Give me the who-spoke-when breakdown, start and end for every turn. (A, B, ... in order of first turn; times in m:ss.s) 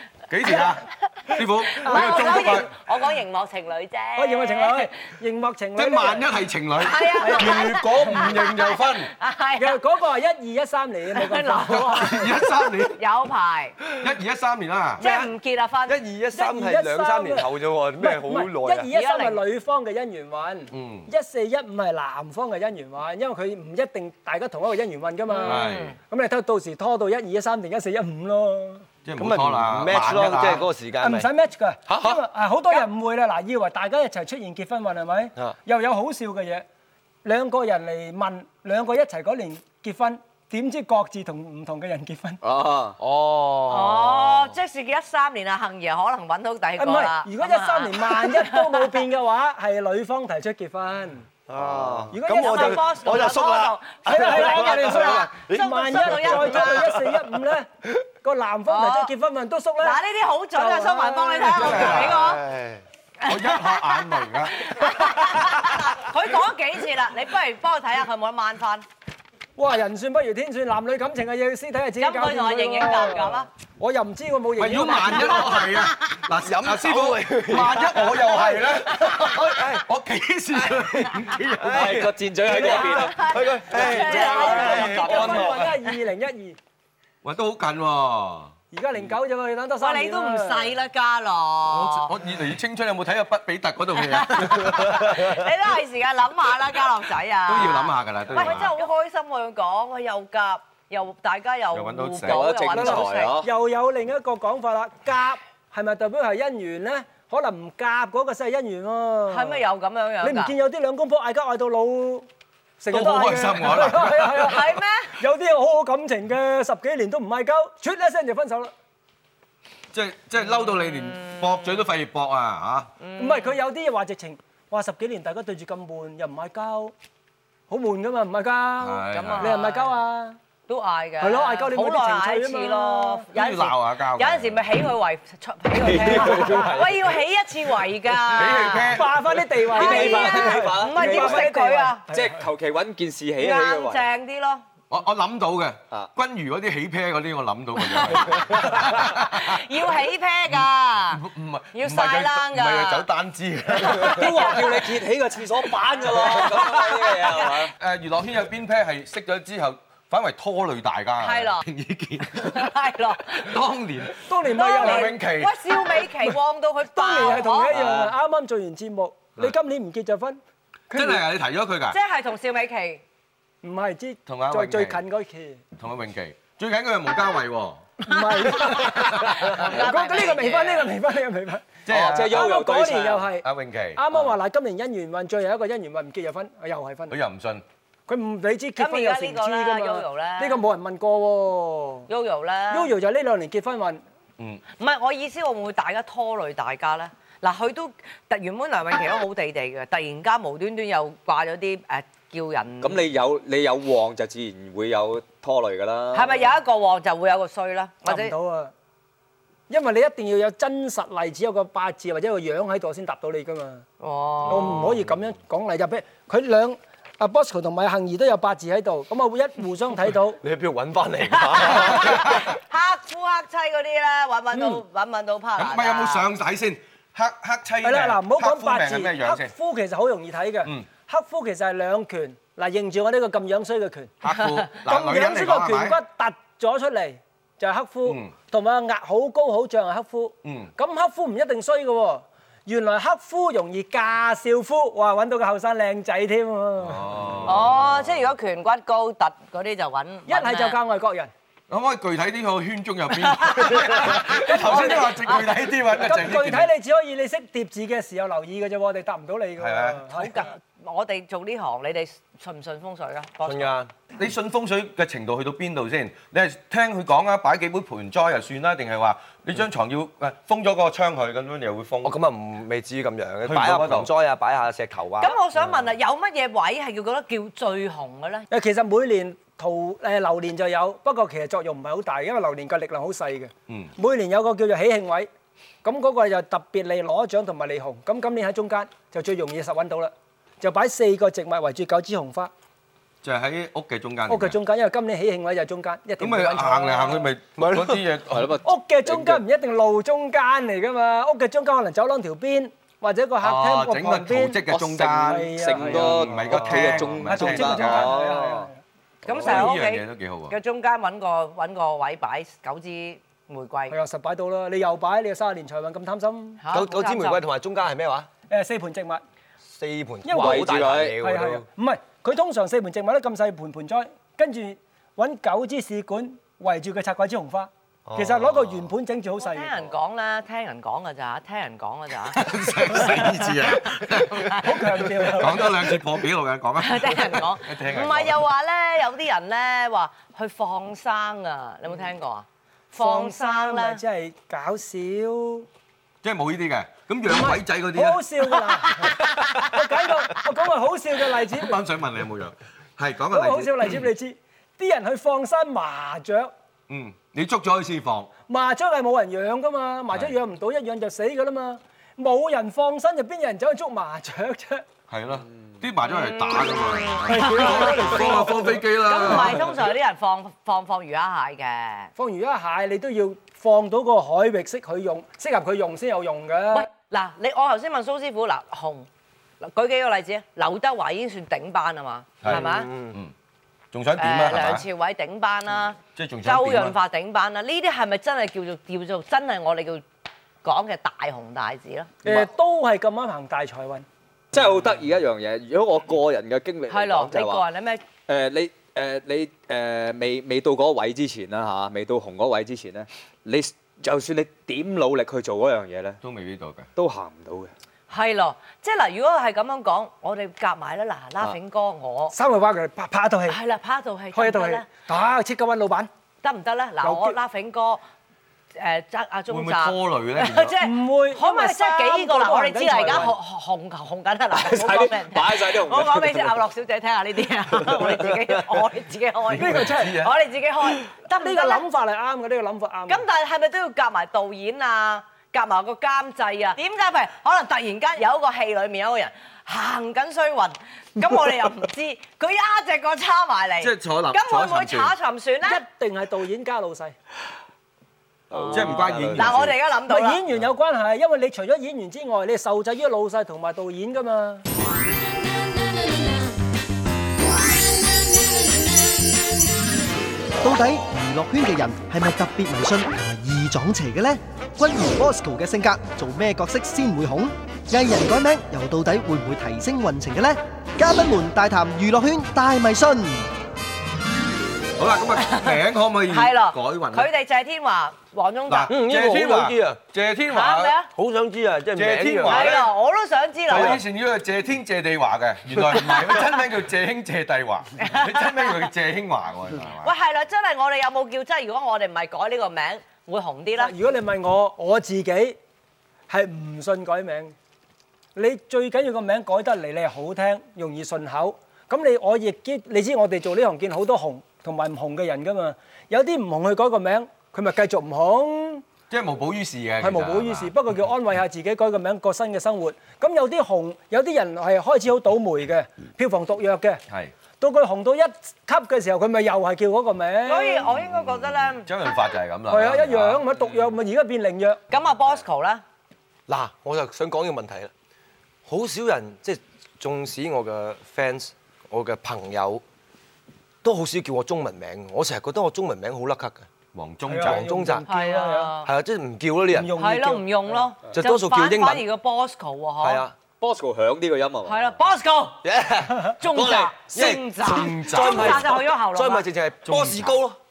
0:00.3-0:02.7 A
0:01.7-0:04.9 B
0:01.8-0:02.7 C
0:04.2-0:06.3 C
0:05.8-0:09.1 A
0:06.8-0:09.8 B
0:07.2-0:08.3 C
0:09.6-0:12.3 C
0:11.1-0:13.8 B
0:11.8-0:13.0 A
0:13.9-0:15.0 A
0:15.0-0:16.0 B
0:15.0-0:15.3 C
0:15.9-0:18.9 D
0:16.3-0:28.8 C
0:18.9-0:19.4 B
0:20.7-0:21.1 A
0:25.3-0:26.0 B
0:25.4-0:25.9 A
0:29.0-0:30.7 A
0:29.2-0:31.3 D
0:31.0-0:36.6 C
0:31.9-0:32.2 D
0:37.2-0:42.4 C
0:42.4-0:43.0 E
0:43.1-0:43.7 D
0:43.7-0:49.0 B
0:46.8-0:51.3 C
0:51.5-0:57.2 D
0:52.1-0:53.2 C
0:52.3-0:57.0 B
0:54.0-1:00.0 C
0:58.7-0:59.1 B
0:59.8-1:02.4 B
1:00.5-1:02.1 C
1:01.5-1:02.3 A
1:01.7-1:02.8 D
1:03.2-1:08.8 B
1:03.3-1:04.7 A
1:09.6-1:15.7 C
1:12.0-1:13.5 B
1:14.6-1:22.1 A
1:16.4-1:18.6 D
1:19.2-1:19.8 D
1:21.4-1:25.7 D
1:21.6-1:23.2 E
1:22.5-1:25.5 B
1:22.5-1:23.1 C
1:23.7-1:26.6 C
1:24.2-1:25.6 E
1:27.2-1:28.5 A
1:28.7-1:30.7 C
1:29.8-1:32.1 B
1:31.7-1:35.2 A
1:34.0-1:43.3 B
1:37.5-1:38.7 A
1:41.7-1:42.4 A
1:42.2-1:43.5 E
1:42.7-1:49.6 C
1:49.3-1:50.5 B
1:50.2-1:52.3 C
1:52.8-1:58.7 C
1:52.9-1:54.6 A
1:54.2-1:55.2 B
1:59.9-2:02.9 A
2:00.8-2:01.6 B
2:03.0-2:03.6 B
2:03.2-2:06.9 C
2:07.7-2:10.4 C
2:08.8-2:09.6 A
2:09.1-2:10.0 B
2:10.7-2:19.0 B
2:11.2-2:13.2 C
2:13.3-2:14.7 A
2:15.8-2:17.0 E
2:16.2-2:16.6 C
2:18.3-2:19.3 A
2:18.9-2:22.4 C
2:19.7-2:21.5 E
2:19.7-2:22.0 B
2:22.1-2:24.0 E
2:23.4-2:24.6 B
2:24.9-2:29.6 A
2:27.9-2:31.2 B
2:30.5-2:34.4 A
2:31.7-2:33.0 B
2:33.8-2:34.9 B
2:33.8-2:37.7 E
2:35.8-2:37.5 B
2:37.8-2:42.7 A
2:41.2-2:41.6 B
2:42.3-2:43.5 B
2:43.3-2:45.6 A
2:44.2-2:45.1 C
2:44.5-2:47.8 B
2:46.9-2:50.4 C
2:47.7-2:48.1 A
2:47.7-2:48.0 E
2:50.9-2:51.2 C
2:50.9-2:52.0 A
2:51.9-2:53.0 B
2:53.6-2:55.6 C
2:54.3-2:55.0 A
2:55.8-2:57.9 A
2:58.0-3:07.1 C
2:58.1-3:00.9 B
2:58.6-2:59.3 A
3:01.8-3:02.5 A
3:01.9-3:03.3 E
3:03.4-3:04.0 A
3:07.1-3:07.6 A
3:08.1-3:12.1 C
3:08.8-3:10.6 B
3:12.1-3:12.9 B
3:12.7-3:14.0 C
3:14.8-3:23.0 B
3:22.8-3:26.3 E
3:26.1-3:28.3 B
3:28.0-3:28.7 C
3:29.7-3:33.8 C
3:34.0-3:35.0 B
3:34.5-3:40.4 C
3:40.4-3:42.4 D
3:41.3-3:46.3 B
3:42.1-3:42.4 A
3:44.5-3:44.8 C
3:45.6-3:49.5 A
3:47.8-3:54.1 C
3:54.2-3:56.0 A
3:54.8-4:07.2 C
3:58.0-3:58.3 A
4:00.4-4:00.7 A
4:06.8-4:07.8 A
4:07.4-4:10.8 B
4:10.3-4:11.3 C
4:11.7-4:16.7 A
4:13.2-4:15.4 B
4:14.3-4:15.4 C
4:16.0-4:20.4 C
4:19.6-4:20.0 A
4:20.1-4:23.7 B
4:23.4-4:23.9 D
4:24.2-4:32.2 A
4:32.0-4:35.4 D
4:33.4-4:34.1 A
4:35.2-4:38.5 B
4:38.5-4:45.3 C
4:45.8-4:52.5 C
4:53.2-4:54.6 A
4:54.3-4:57.3 C
4:56.2-4:58.6 A
4:57.6-4:58.0 D
4:58.3-4:59.4 E
4:58.6-5:08.8 C
5:03.4-5:08.1 A
5:04.7-5:08.7 E
5:06.4-5:07.0 D
5:09.2-5:14.0 B
5:09.3-5:10.5 A
5:13.9-5:16.6 C
5:16.6-5:17.4 B
5:16.7-5:18.3 D
5:18.5-5:19.2 C
5:19.7-5:21.6 D
5:20.2-5:29.8 C
5:20.4-5:21.2 E
5:28.1-5:28.7 D
5:29.4-5:34.6 B
5:32.3-5:38.4 A
5:34.5-5:36.0 C
5:36.8-5:44.0 B
5:43.0-5:45.7 C
5:46.2-5:48.2 A
5:47.3-5:51.8 C
5:49.0-5:49.7 B
5:51.5-5:54.0 A
5:53.3-5:56.5 C
5:56.9-5:58.3 A
5:58.5-6:04.8 C
6:05.1-6:09.8 A
6:06.1-6:08.1 B
6:07.2-6:09.6 C
6:09.0-6:12.1 B
6:12.2-6:16.9 C
6:16.7-6:19.1 B
6:19.6-6:22.9 B
6:22.4-6:23.3 A
6:22.5-6:23.2 D
6:23.9-6:24.8 A
6:24.2-6:30.0 B
6:26.2-6:27.0 A
6:30.6-6:32.1 B
6:32.2-6:34.0 C
6:34.5-6:37.6 E
6:36.9-6:38.0 B
6:38.3-6:46.2 E
6:46.2-6:46.9 A
6:47.0-6:47.7 E
6:48.1-6:52.4 B
6:52.3-6:53.6 C
6:53.5-6:54.8 B
6:54.3-6:56.1 C
6:56.4-6:58.0 B
6:57.0-6:57.4 C
6:58.8-7:11.8 B
6:59.5-7:00.7 A
7:00.8-7:03.3 C
7:04.5-7:06.6 E
7:09.5-7:10.3 A
7:09.6-7:10.2 C
7:11.3-7:13.2 C
7:13.1-7:25.8 B
7:23.8-7:25.1 A
7:25.6-7:27.1 C
7:28.5-7:29.7 E
7:28.5-7:30.4 B
7:28.7-7:29.8 A
7:30.1-7:34.6 C
7:40.6-7:53.5 F
7:55.0-7:57.3 A
7:55.4-7:59.0 B
7:58.7-8:00.9 A
7:58.9-8:00.0 D
8:00.5-8:01.1 B
8:01.1-8:02.8 D
8:01.9-8:02.9 A
8:02.4-8:04.0 B
8:03.7-8:10.1 A
8:03.7-8:04.0 D
8:08.0-8:08.8 B
8:10.0-8:13.9 B
8:13.8-8:15.6 C
8:16.3-8:17.5 C
8:18.4-8:28.8 C
8:29.1-8:30.7 A
8:30.0-8:37.0 C
8:37.6-8:40.9 C
8:40.4-8:41.9 B
8:41.0-8:43.4 A
8:42.7-8:44.8 C
8:44.9-8:45.8 B
8:46.5-8:47.9 D
8:48.6-8:52.8 D
8:53.8-8:56.7 D
8:56.9-8:57.7 A
8:57.3-8:58.7 C
8:57.4-8:58.1 D
8:58.0-8:58.9 B
8:58.8-8:59.9 D
8:59.7-9:00.8 C
8:59.9-9:03.2 B
9:01.1-9:02.0 D
9:03.0-9:03.4 D
9:03.6-9:05.0 E
9:04.6-9:05.6 B
9:05.6-9:10.6 D
9:06.3-9:09.4 B
9:07.7-9:08.6 A
9:09.8-9:10.4 A